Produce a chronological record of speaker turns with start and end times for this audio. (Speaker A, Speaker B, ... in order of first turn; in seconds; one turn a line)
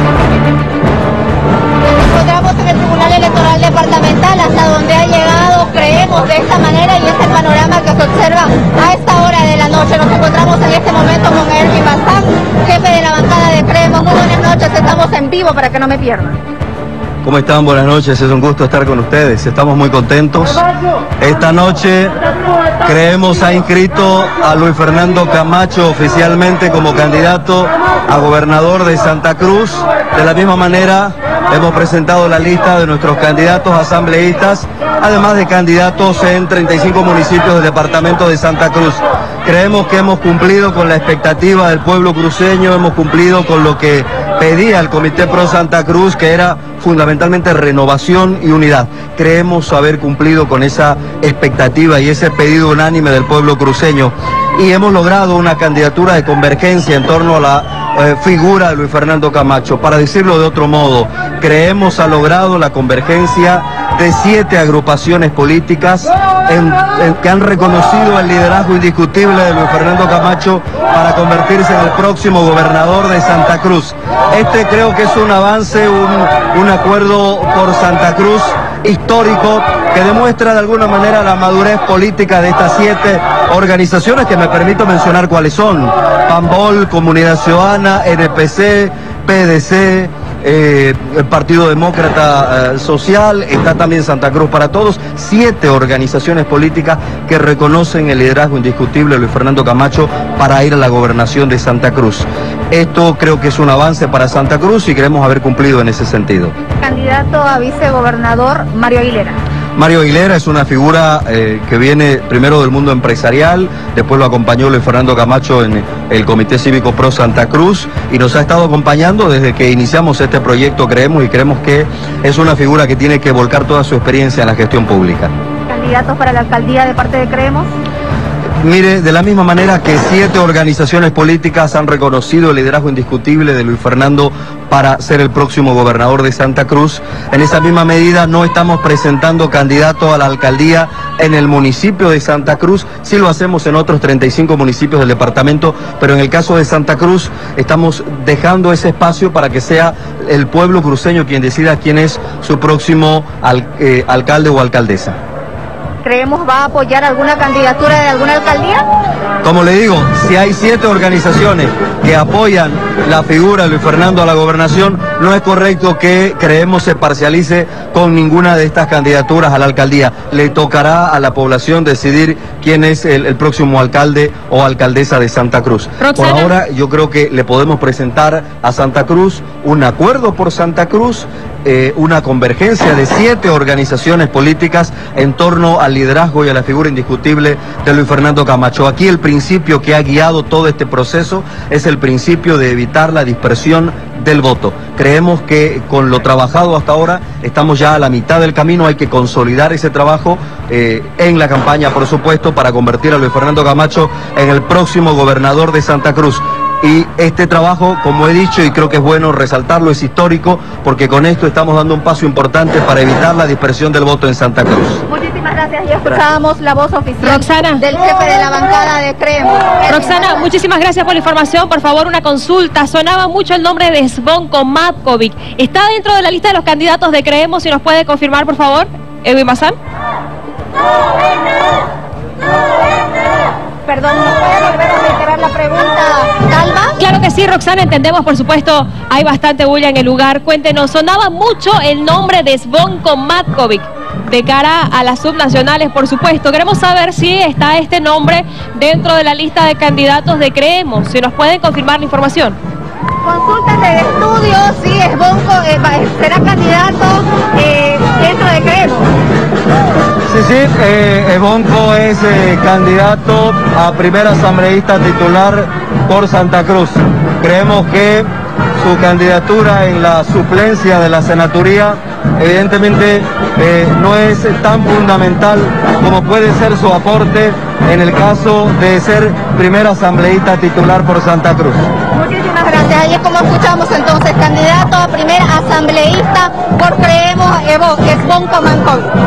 Speaker A: 1.8-16.4
Speaker B: 17.2-20.6
Speaker B: 21.2-22.2
Speaker B: 22.8-106.5
Speaker A: 106.8-109.4
Speaker B: 109.8-125.3
Speaker A: 125.7-127.7
Speaker B: 128.6-155.2
Speaker A: 156.0-158.8
Speaker B: 159.4-215.0
Speaker C: 176.0-176.5
Speaker A: 215.1-220.5
Speaker C: 217.2-217.8
Speaker C: 219.9-229.8
Speaker A: 233.9-237.0
Speaker C: 237.0-252.6
Speaker A: 253.2-259.1
Speaker B: 260.3-268.3
Speaker B: 268.8-281.8
Speaker A: 282.1-289.1